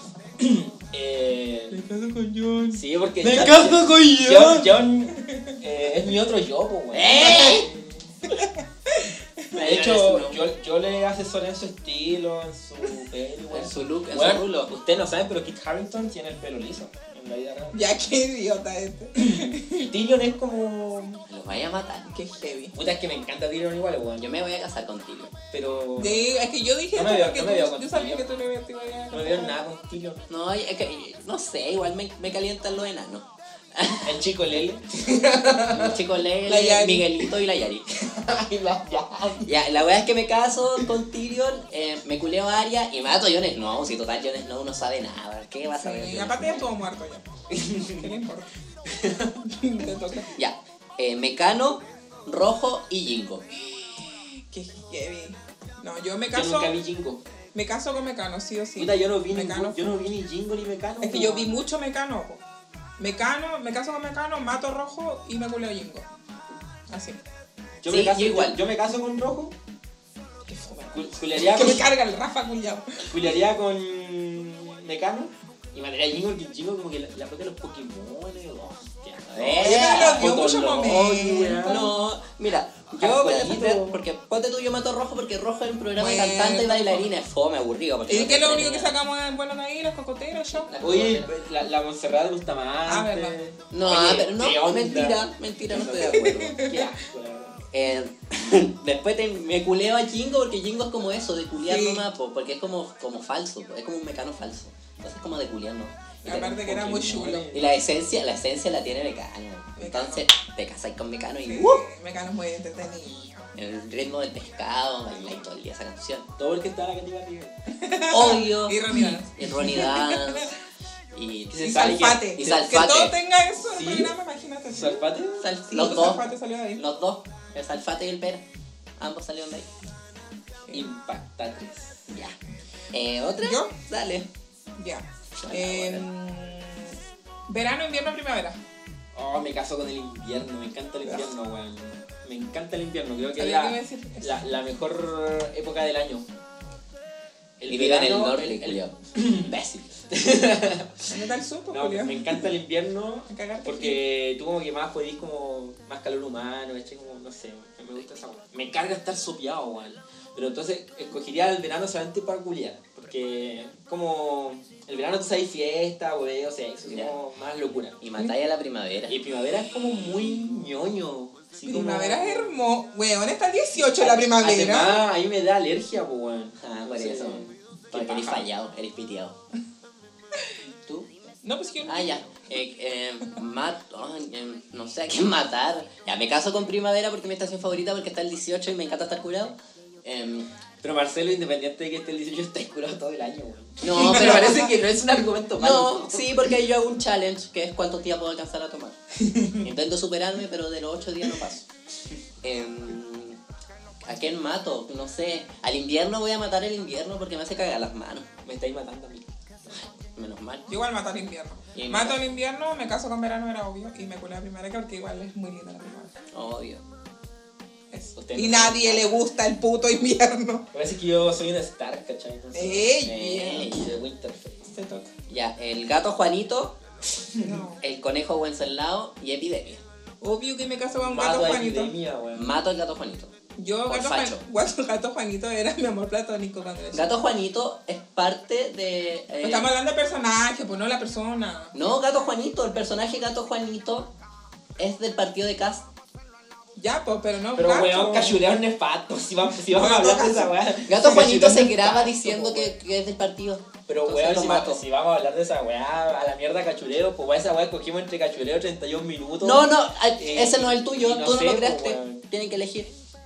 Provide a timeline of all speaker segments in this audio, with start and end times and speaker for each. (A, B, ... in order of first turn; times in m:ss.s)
0:00.4-0:01.8 A
0:01.7-0:02.8 B
0:02.7-0:08.1 A
0:03.2-0:04.8 C
0:05.2-0:05.6 B
0:06.9-0:07.7 C
0:08.3-0:09.5 B
0:09.6-0:10.4 C
0:09.6-0:17.8 A
0:13.5-0:14.7 C
0:17.7-0:19.9 B
0:19.2-0:21.2 A
0:21.3-0:22.1 C
0:22.1-0:22.8 B
0:22.7-0:24.3 A
0:24.2-0:25.3 C
0:25.5-0:26.3 A
0:26.0-0:29.6 B
0:26.9-0:28.3 A
0:29.1-0:30.2 A
0:30.3-0:34.2 C
0:34.0-0:37.3 A
0:35.7-0:37.9 C
0:38.0-0:39.5 A
0:39.4-0:46.7 C
0:45.8-0:47.3 B
0:47.5-0:48.1 A
0:47.8-0:48.5 B
0:48.9-0:49.4 A
0:49.4-0:50.3 B
0:50.4-0:53.4 C
0:54.5-0:56.8 B
0:56.3-0:57.2 A
0:57.5-0:59.9 B
0:58.8-1:01.6 A
1:01.0-1:02.4 B
1:03.0-1:06.1 B
1:06.9-1:07.2 B
1:07.8-1:09.5 A
1:07.9-1:08.6 C
1:10.5-1:13.2 B
1:10.9-1:11.9 A
1:13.1-1:21.9 A
1:19.3-1:28.9 C
1:19.6-1:21.9 B
1:23.0-1:24.0 A
1:26.0-1:27.0 B
1:28.1-1:30.7 B
1:30.5-1:31.3 C
1:30.8-1:37.6 A
1:32.9-1:33.4 B
1:33.7-1:36.7 C
1:35.8-1:36.8 B
1:37.7-1:46.4 C
1:41.6-1:42.0 B
1:46.2-1:47.5 B
1:46.3-1:47.7 A
1:47.5-1:51.8 C
1:49.8-1:50.3 B
1:51.4-1:53.4 B
1:53.6-1:56.3 C
1:56.4-1:57.6 A
1:57.7-2:00.5 B
1:58.1-2:00.6 C
2:01.1-2:03.2 C
2:01.5-2:02.8 A
2:01.6-2:06.8 B
2:03.6-2:04.2 A
2:04.7-2:05.5 A
2:05.4-2:08.4 C
2:09.0-2:09.7 C
2:10.7-2:12.0 A
2:12.1-2:12.4 C
2:12.9-2:14.3 C
2:13.4-2:13.7 B
2:14.8-2:18.6 B
2:15.4-2:16.0 C
2:19.2-2:26.3 A
2:21.0-2:21.3 B
2:23.4-2:24.5 B
2:27.6-2:31.1 A
2:27.7-2:29.8 C
2:31.1-2:32.4 B
2:31.7-2:48.0 A
2:33.3-2:34.0 B
2:46.9-2:47.1 C
2:48.0-2:49.2 C
2:49.1-2:52.6 A
2:51.7-2:55.0 B
2:54.0-2:58.5 A
2:56.6-2:59.4 C
3:01.4-3:02.2 B
3:01.8-3:10.5 C
3:10.8-3:16.6 A
3:13.8-3:14.8 C
3:15.6-3:19.0 C
3:19.2-3:19.7 A
3:19.6-3:21.7 C
3:22.4-3:23.4 C
3:24.0-3:28.3 C
3:28.4-3:29.3 A
3:29.8-3:30.7 C
3:30.7-3:36.1 B
3:31.8-3:32.3 C
3:36.3-3:36.8 C
3:37.9-3:40.6 B
3:38.2-3:39.2 A
3:40.7-3:43.0 A
3:42.5-3:43.7 B
3:43.0-3:44.0 C
3:43.7-3:44.7 A
3:44.7-3:45.1 B
3:45.3-3:46.8 C
3:47.4-3:47.6 A
3:47.4-3:47.8 B
3:47.8-3:49.8 C
3:50.2-3:51.9 B
3:50.9-3:52.5 A
3:52.3-3:53.3 C
3:53.6-3:57.3 B
3:53.9-3:54.4 C
3:56.9-3:59.7 C
3:59.4-4:01.8 B
4:01.7-4:04.1 C
4:04.8-4:05.8 C
4:06.8-4:08.4 B
4:07.5-4:12.6 A
4:09.7-4:10.6 B
4:10.8-4:14.8 C
4:12.4-4:12.7 B
4:13.9-4:22.2 A
4:19.4-4:22.9 C